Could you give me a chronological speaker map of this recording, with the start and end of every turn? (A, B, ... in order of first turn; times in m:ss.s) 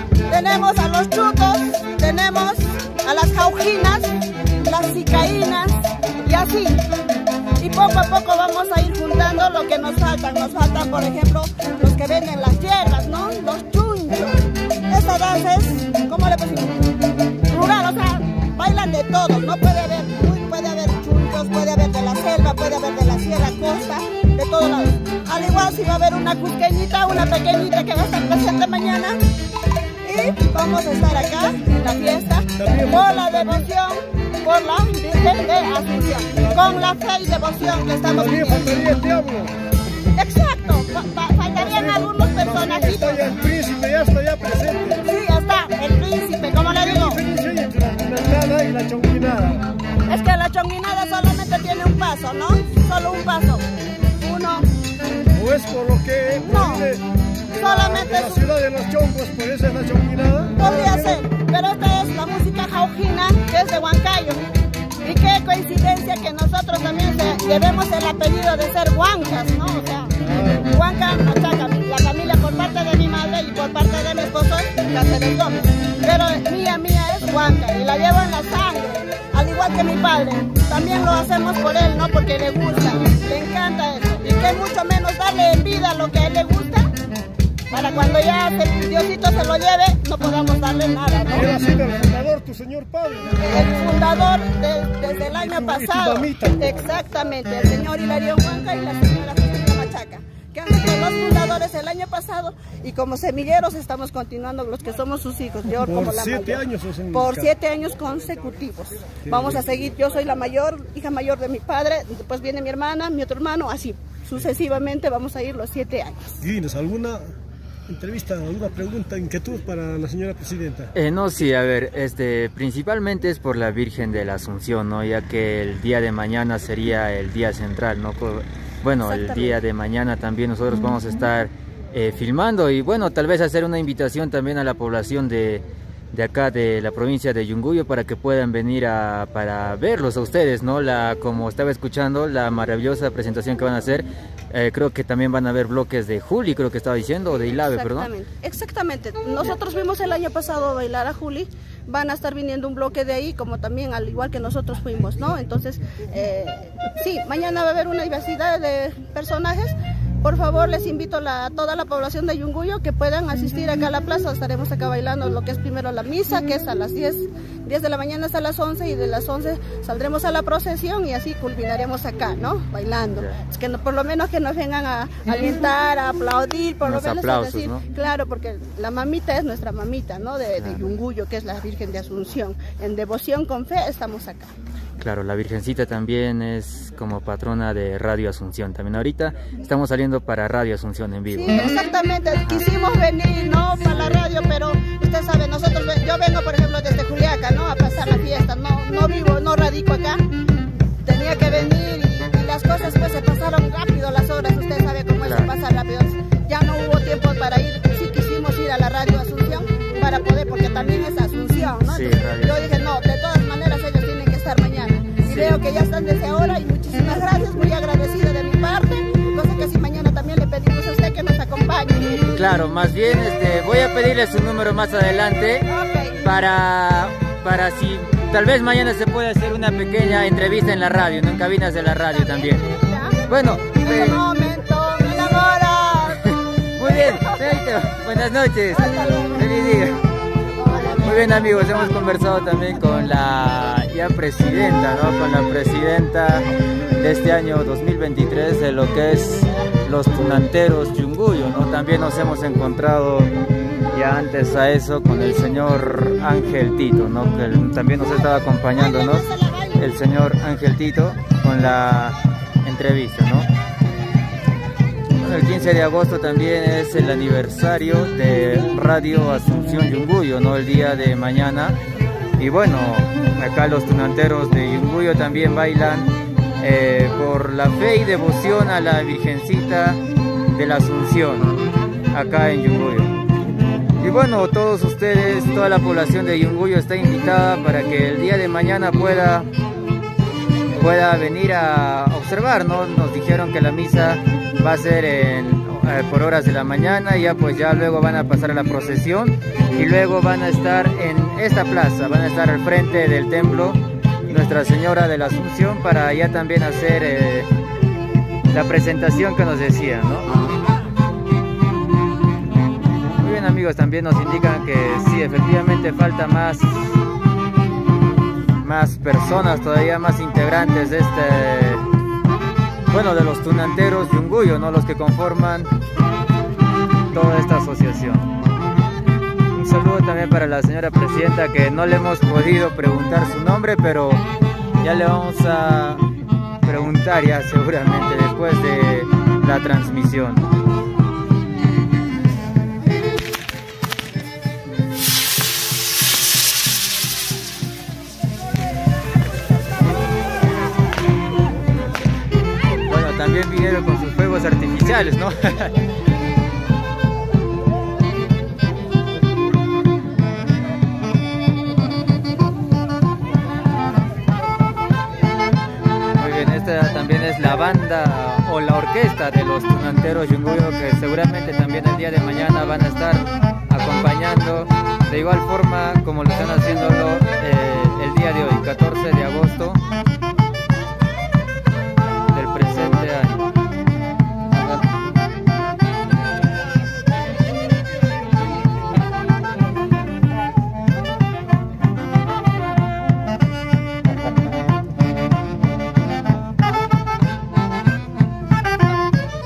0:00.3-0:06.8 A
0:07.6-0:16.8 A
0:17.5-0:29.2 A
0:30.0-0:38.7 A
0:32.6-0:33.6 B
0:38.2-0:39.5 B
0:40.2-0:43.2 A
0:41.6-0:45.0 B
0:45.0-0:47.2 A
0:46.8-0:49.7 B
0:50.1-0:53.7 A
0:54.2-0:54.7 A
0:55.3-1:01.2 B
0:56.4-0:56.9 A
0:57.6-0:58.4 A
1:00.6-1:04.4 A
1:05.0-1:26.9 A
1:10.2-1:10.7 B
1:27.7-1:31.5 A
1:31.3-1:33.6 B
1:33.4-1:56.4 A
1:35.4-1:36.9 B
1:45.8-1:47.5 B
1:49.3-1:49.6 B
1:56.4-1:57.3 B
1:57.9-2:00.9 B
2:01.0-2:28.1 C
2:09.0-2:09.6 A
2:27.6-3:04.5 A
2:56.8-2:57.8 C
3:05.0-3:11.7 C
3:11.3-3:20.2 A
3:21.0-3:42.3 A
3:25.2-3:25.5 C
3:31.9-3:32.6 C
3:35.3-3:35.6 C
3:42.3-3:45.7 C
3:45.7-3:46.2 A
3:46.2-3:52.6 C
3:52.1-3:53.2 A
3:53.3-3:54.2 C
3:53.8-3:57.5 A
3:56.1-4:00.0 C
3:58.7-3:59.5 A
4:00.6-4:01.7 A
4:01.0-4:13.3 C
4:13.9-4:23.5 C
4:18.8-4:19.9 A
4:25.2-4:31.8 C
4:32.4-4:41.6 C
4:42.1-4:43.1 C
4:44.0-4:49.5 C
4:50.8-5:07.5 C
5:08.5-5:10.3 C
5:13.2-5:17.0 C
5:18.6-5:21.8 C
5:22.9-5:25.7 C
5:27.1-5:28.3 C
5:29.5-5:34.2 C
5:34.8-5:36.1 C
5:36.6-5:40.5 C
5:52.9-5:55.8 C
6:06.2-6:19.8 C
6:22.3-6:23.5 C